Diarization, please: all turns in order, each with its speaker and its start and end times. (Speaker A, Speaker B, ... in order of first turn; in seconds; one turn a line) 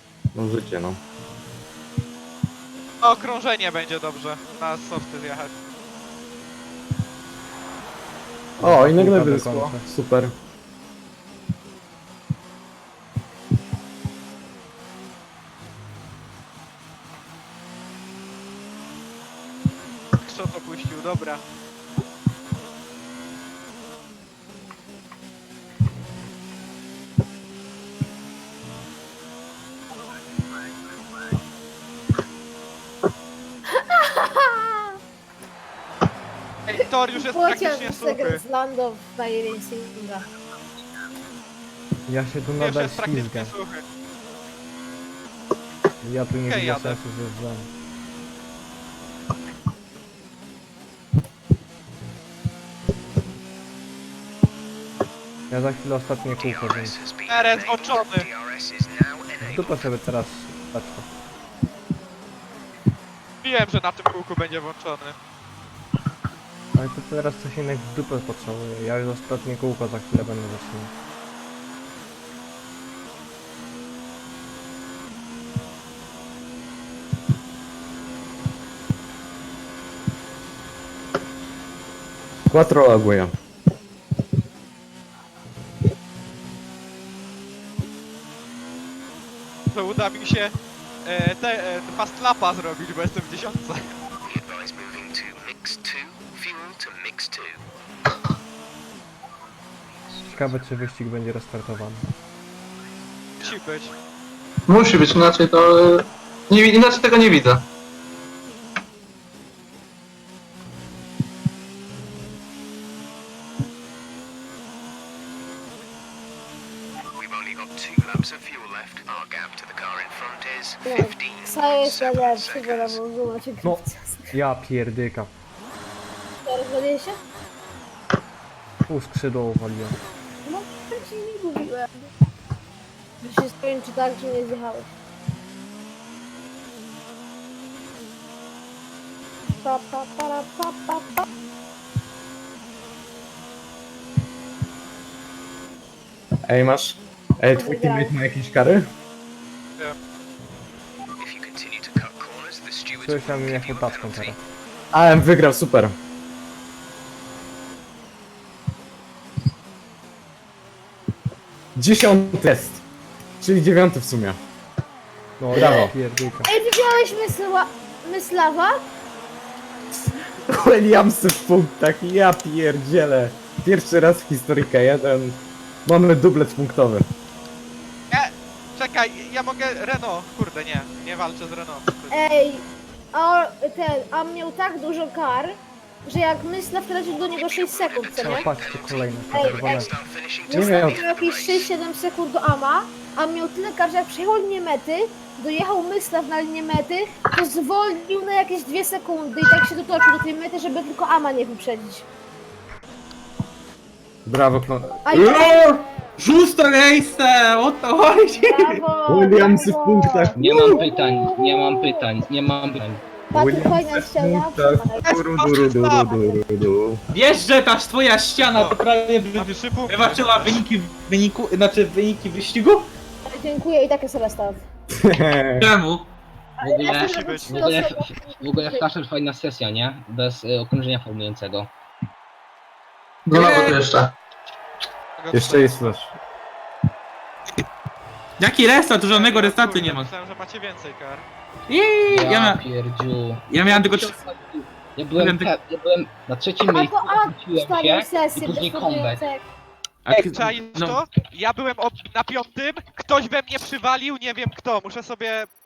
Speaker A: 0.3-1.0
Speaker B: 3.0-5.5
Speaker A: 8.6-10.3
Speaker C: 8.6-9.9
Speaker B: 20.2-21.4
Speaker D: 33.7-35.0
Speaker B: 36.7-38.4
Speaker D: 36.8-40.3
Speaker C: 42.1-43.5
Speaker B: 42.6-43.8
Speaker C: 46.0-47.7
Speaker B: 46.5-47.0
Speaker C: 55.5-57.0
Speaker E: 56.4-60.0
Speaker B: 57.3-58.3
Speaker C: 59.4-61.1
Speaker B: 63.4-65.2
Speaker C: 66.8-70.9
Speaker A: 82.5-83.3
Speaker B: 89.7-90.5
Speaker B: 91.0-93.9
Speaker E: 94.2-97.6
Speaker C: 100.2-102.1
Speaker B: 103.4-103.9
Speaker F: 104.7-107.6
Speaker E: 117.2-123.0
Speaker D: 120.9-124.3
Speaker C: 123.6-125.3
Speaker D: 126.5-127.2
Speaker C: 128.9-130.0
Speaker D: 130.4-132.1
Speaker D: 133.2-134.9
Speaker D: 139.6-141.3
Speaker A: 146.5-148.9
Speaker D: 147.5-148.1
Speaker E: 151.2-154.4
Speaker C: 153.0-154.4
Speaker A: 154.9-155.9
Speaker A: 161.8-162.8
Speaker A: 163.4-164.4
Speaker C: 165.4-166.5
Speaker A: 165.5-165.9
Speaker D: 166.5-168.8
Speaker A: 170.5-177.1
Speaker B: 178.1-182.2
Speaker D: 182.1-188.5
Speaker E: 187.3-191.7
Speaker C: 188.2-189.9
Speaker D: 189.3-202.1
Speaker A: 190.5-191.0
Speaker A: 204.3-205.4
Speaker D: 205.1-205.6
Speaker G: 205.1-208.8
Speaker D: 208.5-212.0
Speaker A: 209.1-210.8
Speaker H: 210.4-213.0
Speaker D: 213.3-215.1
Speaker A: 213.3-217.0
Speaker B: 215.0-216.4
Speaker G: 217.1-222.9
Speaker B: 218.5-218.8
Speaker B: 219.3-220.6
Speaker D: 223.3-224.6
Speaker A: 224.9-225.7
Speaker G: 225.6-226.1
Speaker D: 226.6-228.8
Speaker H: 226.6-231.7
Speaker B: 227.1-227.5
Speaker F: 233.3-234.1
Speaker G: 233.3-233.8
Speaker B: 235.2-235.8
Speaker A: 235.3-236.1
Speaker G: 238.4-240.1
Speaker B: 239.1-241.2
Speaker G: 241.7-242.6
Speaker H: 242.1-249.3
Speaker G: 243.5-244.2
Speaker G: 245.2-245.5
Speaker D: 246.7-249.4
Speaker G: 250.1-251.0
Speaker B: 250.3-255.5